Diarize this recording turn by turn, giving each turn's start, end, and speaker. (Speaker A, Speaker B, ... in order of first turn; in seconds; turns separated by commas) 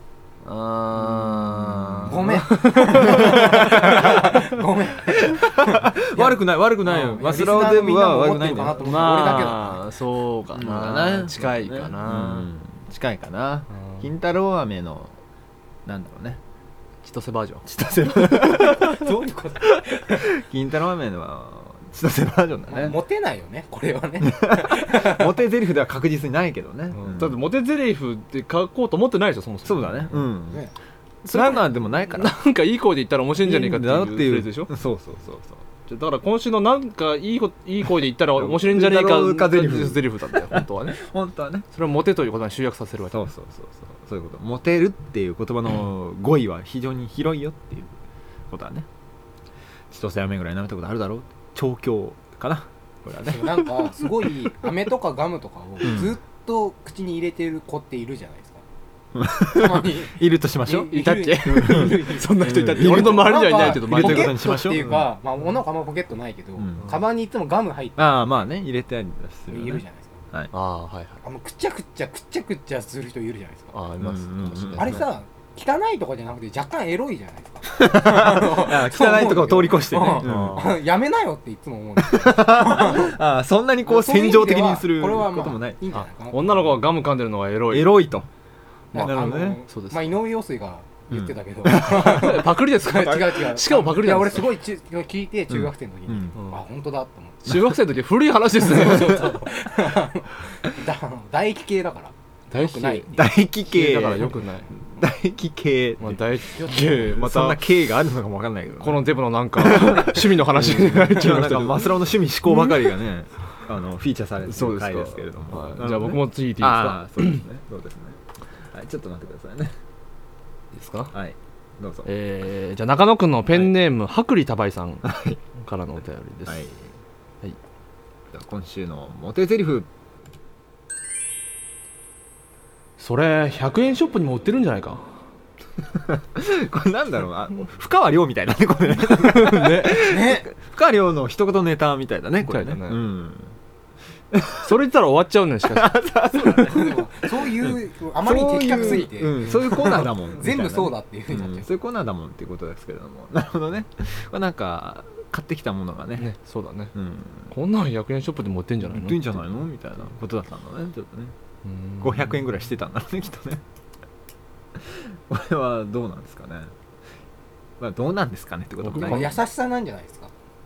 Speaker A: 0.4-3.9, Speaker B: 1.1-2.4, Speaker C: 2.1-9.8, Speaker B: 2.9-4.4, Speaker B: 5.1-9.5, Speaker A: 8.8-12.5, Speaker B: 10.5-15.2, Speaker B: 15.8-16.4, Speaker A: 17.0-17.6, Speaker B: 17.6-19.1, Speaker C: 18.4-20.3, Speaker B: 19.7-23.0, Speaker C: 22.7-25.3, Speaker B: 24.2-27.4, Speaker A: 26.9-30.1, Speaker B: 29.6-30.6, Speaker B: 31.2-32.3, Speaker A: 31.3-34.7, Speaker B: 33.4-35.6, Speaker A: 35.8-41.0, Speaker B: 38.3-41.6, Speaker A: 41.7-43.2, Speaker B: 43.1-48.0, Speaker B: 48.5-48.9, Speaker B: 49.9-53.9, Speaker C: 53.2-58.6, Speaker B: 55.8-56.1, Speaker B: 59.1-65.1, Speaker C: 59.5-68.3, Speaker A: 60.9-64.4, Speaker B: 66.6-66.9, Speaker B: 68.0-70.5, Speaker C: 69.5-70.2, Speaker A: 70.5-71.2, Speaker C: 71.2-73.7, Speaker A: 73.7-75.0, Speaker B: 74.0-75.0, Speaker C: 74.7-83.2, Speaker B: 77.7-80.6, Speaker A: 80.2-80.8, Speaker B: 82.0-85.8, Speaker C: 83.8-86.5, Speaker A: 85.9-88.0, Speaker B: 87.7-88.3, Speaker C: 88.9-97.5, Speaker B: 88.9-89.6, Speaker A: 89.7-90.1, Speaker B: 91.1-92.5, Speaker A: 91.8-94.5, Speaker B: 95.5-96.3, Speaker A: 97.5-99.4, Speaker C: 98.6-103.1, Speaker A: 102.5-104.7, Speaker B: 103.1-109.0, Speaker A: 106.0-107.6, Speaker A: 108.8-111.9, Speaker B: 109.5-118.2, Speaker A: 114.4-117.4, Speaker B: 118.7-119.7, Speaker A: 120.7-121.1, Speaker B: 121.1-122.1, Speaker A: 122.0-126.7, Speaker B: 125.0-125.4, Speaker B: 126.5-126.9, Speaker B: 128.3-129.9, Speaker A: 133.0-135.1, Speaker B: 135.9-143.5, Speaker A: 139.2-140.0, Speaker C: 139.9-140.5, Speaker A: 142.4-143.0, Speaker B: 144.3-144.7, Speaker A: 144.6-146.7, Speaker B: 145.7-156.3, Speaker C: 146.7-151.7, Speaker A: 156.2-156.9, Speaker B: 156.9-157.5, Speaker A: 157.5-159.4, Speaker B: 158.8-161.3, Speaker A: 161.7-162.3, Speaker B: 162.0-163.6, Speaker B: 164.8-166.7, Speaker B: 167.8-169.4, Speaker A: 168.8-169.4, Speaker C: 169.0-170.3